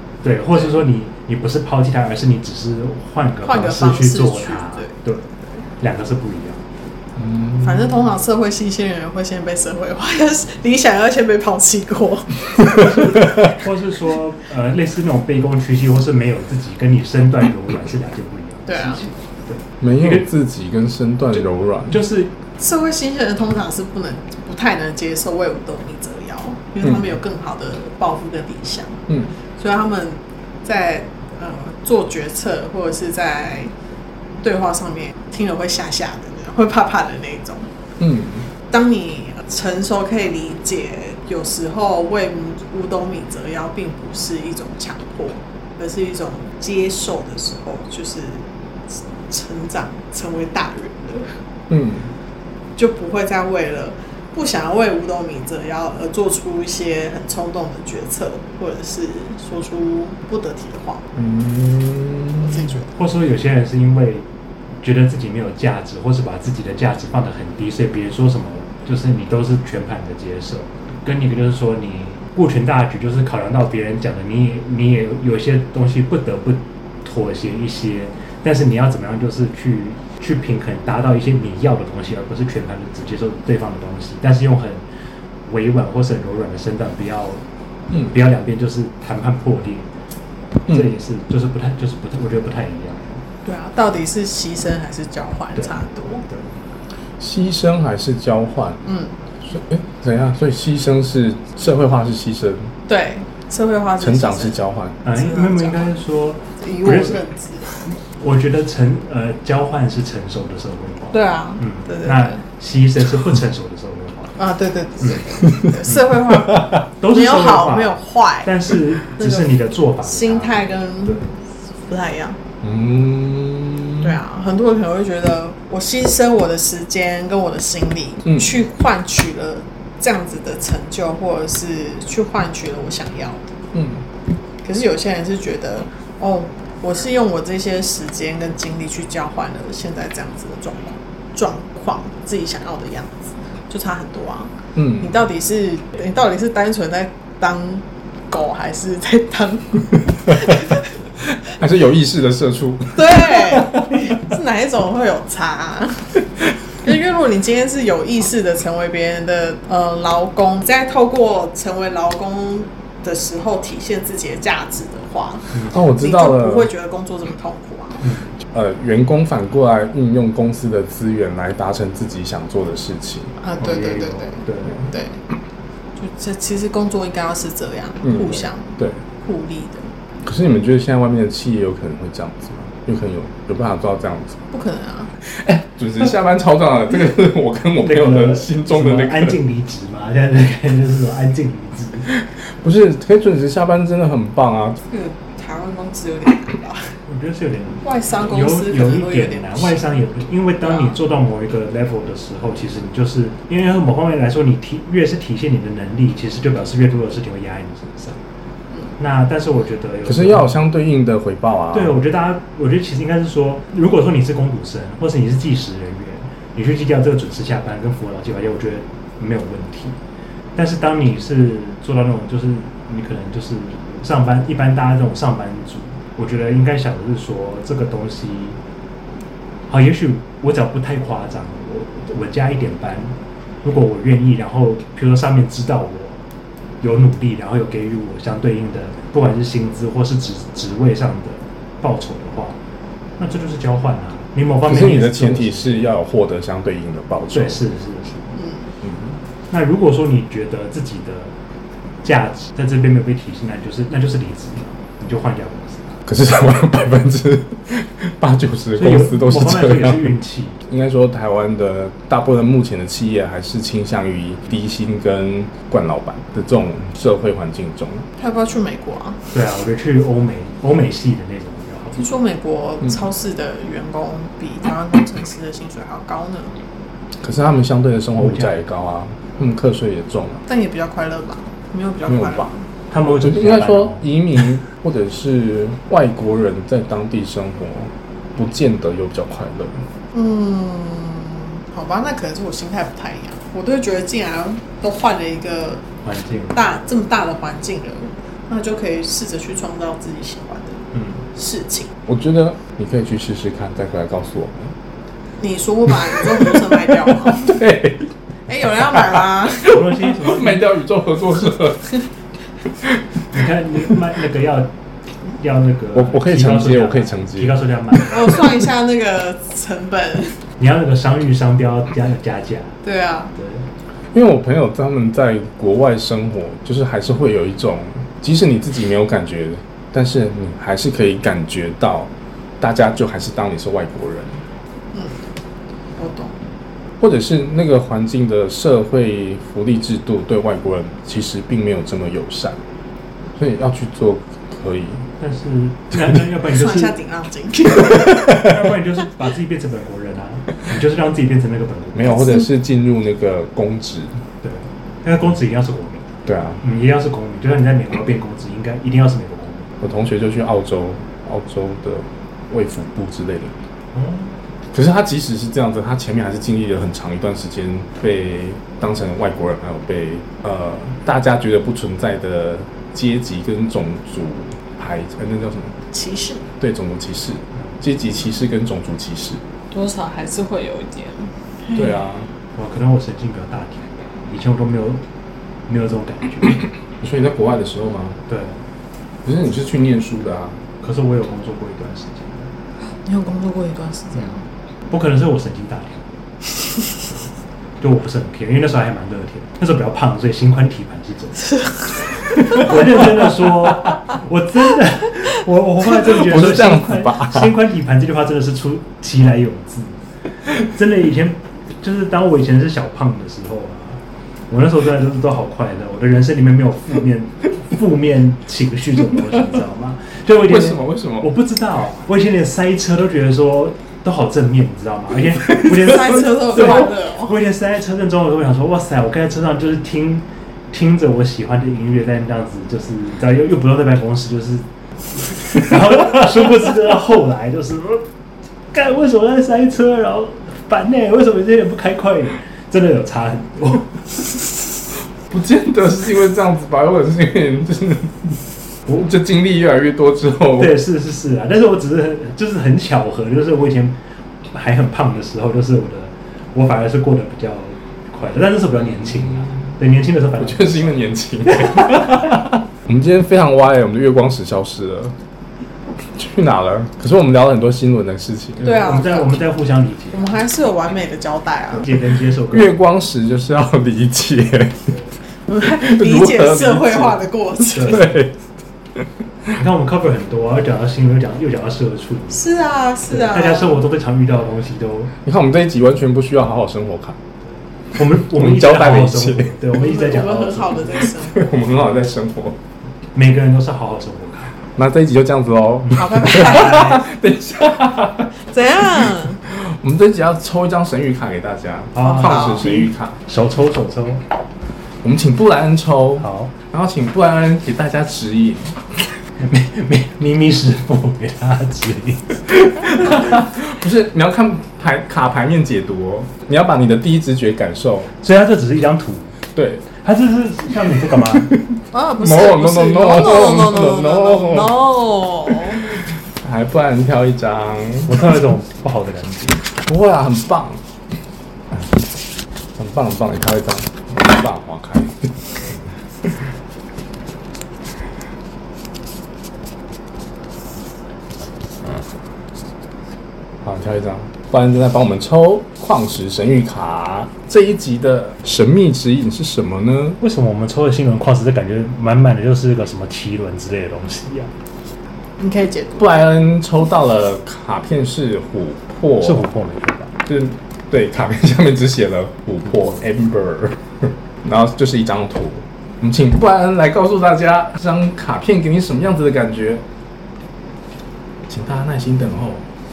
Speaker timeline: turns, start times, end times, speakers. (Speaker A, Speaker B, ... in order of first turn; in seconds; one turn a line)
Speaker A: 0.2-5.3
Speaker B: 3.5-5.6
Speaker A: 5.8-6.7
Speaker C: 7.2-7.9
Speaker B: 7.6-13.2
Speaker A: 12.8-20.3
Speaker B: 18.7-19.0
Speaker C: 19.8-22.0
Speaker A: 21.9-22.3
Speaker B: 22.6-29.0
Speaker B: 29.6-33.7
Speaker B: 34.4-37.7
Speaker C: 38.0-38.5
Speaker B: 38.7-51.4
Speaker C: 51.7-52.1
Speaker B: 52.8-61.0
Speaker C: 61.1-62.7
Speaker B: 62.4-62.9
Speaker A: 62.9-64.3
Speaker A: 64.8-84.8
Speaker A: 85.5-89.9
Speaker A: 90.6-93.2
Speaker B: 93.4-96.2
Speaker A: 95.5-96.5
Speaker C: 97.2-98.8
Speaker B: 98.8-99.1
Speaker C: 99.4-102.7
Speaker B: 102.9-104.5
Speaker C: 104.0-105.0
Speaker A: 105.0-107.2
Speaker B: 105.1-105.9
Speaker B: 106.6-107.7
Speaker A: 107.8-114.4
Speaker B: 111.1-112.4
Speaker B: 114.4-118.5
Speaker A: 115.0-115.2
Speaker C: 116.4-116.6
Speaker A: 116.9-121.3
Speaker B: 119.2-121.2
Speaker B: 121.9-122.4
Speaker C: 122.6-124.2
Speaker B: 124.0-133.5
Speaker C: 133.7-134.0
Speaker B: 134.6-150.9
Speaker C: 144.7-145.1
Speaker C: 151.2-154.0
Speaker B: 152.9-156.2
Speaker B: 156.8-168.0
Speaker C: 165.7-166.7
Speaker A: 168.0-168.3
Speaker C: 168.5-173.4
Speaker B: 173.4-175.2
Speaker A: 173.6-174.8
Speaker B: 176.0-179.9
Speaker C: 178.0-179.0
Speaker C: 180.2-184.4
Speaker B: 184.5-185.1
Speaker C: 185.2-189.4
Speaker A: 187.8-192.1
Speaker C: 192.1-194.8
Speaker B: 194.9-197.0
Speaker A: 197.1-208.2
Speaker B: 197.8-199.9
Speaker A: 209.0-210.6
Speaker C: 210.0-211.9
Speaker A: 211.7-220.0
Speaker A: 220.5-228.6
Speaker A: 229.7-236.2
Speaker A: 236.8-242.6
Speaker A: 243.2-245.9
Speaker C: 244.6-247.6
Speaker A: 247.3-248.4
Speaker B: 248.4-248.6
Speaker C: 248.8-249.2
Speaker A: 249.5-251.3
Speaker A: 252.0-256.0
Speaker C: 256.1-268.1
Speaker A: 258.7-260.6
Speaker B: 268.2-269.3
Speaker A: 269.3-272.1
Speaker B: 271.9-276.5
Speaker C: 277.2-280.4
Speaker A: 278.2-278.6
Speaker B: 280.5-282.6
Speaker C: 282.1-282.5
Speaker A: 282.9-284.1
Speaker C: 283.0-289.9
Speaker B: 290.1-295.8
Speaker A: 296.0-296.6
Speaker B: 296.5-301.9
Speaker A: 300.9-301.2
Speaker C: 302.1-304.7
Speaker B: 305.4-307.7
Speaker C: 305.9-308.1
Speaker B: 308.5-309.9
Speaker C: 308.7-312.0
Speaker A: 309.6-310.7
Speaker A: 313.3-314.7
Speaker A: 315.4-318.4
Speaker C: 315.9-317.6
Speaker B: 318.1-320.4
Speaker A: 320.6-322.8
Speaker B: 322.8-323.3
Speaker A: 323.3-323.7
Speaker C: 324.1-334.4
Speaker B: 334.9-335.2
Speaker B: 336.0-336.4
Speaker C: 337.0-342.6
Speaker C: 343.3-345.1
Speaker A: 345.2-346.9
Speaker B: 346.4-348.4
Speaker A: 348.3-352.4
Speaker C: 351.9-354.2
Speaker A: 354.4-359.7
Speaker C: 356.2-356.6
Speaker C: 359.8-363.5
Speaker A: 363.9-364.4
Speaker C: 364.7-375.8
Speaker B: 375.9-376.4
Speaker C: 376.6-379.4
Speaker B: 379.7-382.0
Speaker C: 381.7-382.3
Speaker A: 382.5-385.0
Speaker A: 385.7-386.7
Speaker C: 387.0-388.2
Speaker A: 388.3-388.6
Speaker C: 389.2-390.6
Speaker A: 390.8-392.5
Speaker B: 393.0-394.4
Speaker A: 394.9-396.2
Speaker A: 397.8-401.6
Speaker B: 401.6-401.9
Speaker A: 402.3-434.6
Speaker C: 406.0-407.5
Speaker C: 420.4-421.3
Speaker B: 425.6-427.4
Speaker A: 435.2-438.1
Speaker A: 438.7-444.0
Speaker C: 445.3-450.8
Speaker A: 450.6-454.0
Speaker A: 454.5-462.1
Speaker C: 460.4-465.1
Speaker C: 466.1-468.8
Speaker A: 468.6-470.4
Speaker B: 468.6-469.4
Speaker B: 470.1-471.9
Speaker A: 471.7-472.8
Speaker C: 472.5-474.9
Speaker B: 475.5-478.1
Speaker C: 475.6-478.4
Speaker A: 477.7-478.2
Speaker A: 479.6-482.5
Speaker B: 482.3-483.8
Speaker A: 483.1-485.1
Speaker C: 485.2-487.2
Speaker A: 487.9-491.1
Speaker C: 488.1-489.6
Speaker B: 489.7-491.8
Speaker C: 491.1-492.6
Speaker A: 493.1-494.6
Speaker C: 494.8-498.3
Speaker A: 495.9-496.4
Speaker B: 495.9-497.1
Speaker B: 498.5-499.4
Speaker C: 498.8-503.2
Speaker A: 501.9-504.2
Speaker B: 502.1-502.9
Speaker C: 505.0-509.0
Speaker A: 506.2-506.5
Speaker A: 509.4-512.4
Speaker C: 512.5-518.1
Speaker A: 518.2-519.3
Speaker C: 519.5-519.8
Speaker A: 520.0-521.5
Speaker C: 521.2-524.8
Speaker B: 521.9-525.8
Speaker C: 525.5-528.1
Speaker A: 528.1-529.6
Speaker C: 529.9-530.8
Speaker C: 532.8-535.8
Speaker C: 543.6-550.2
Speaker A: 550.2-554.5
Speaker B: 555.4-556.2
Speaker C: 556.0-559.5
Speaker A: 559.2-560.1
Speaker C: 560.2-569.8
Speaker C: 571.5-572.6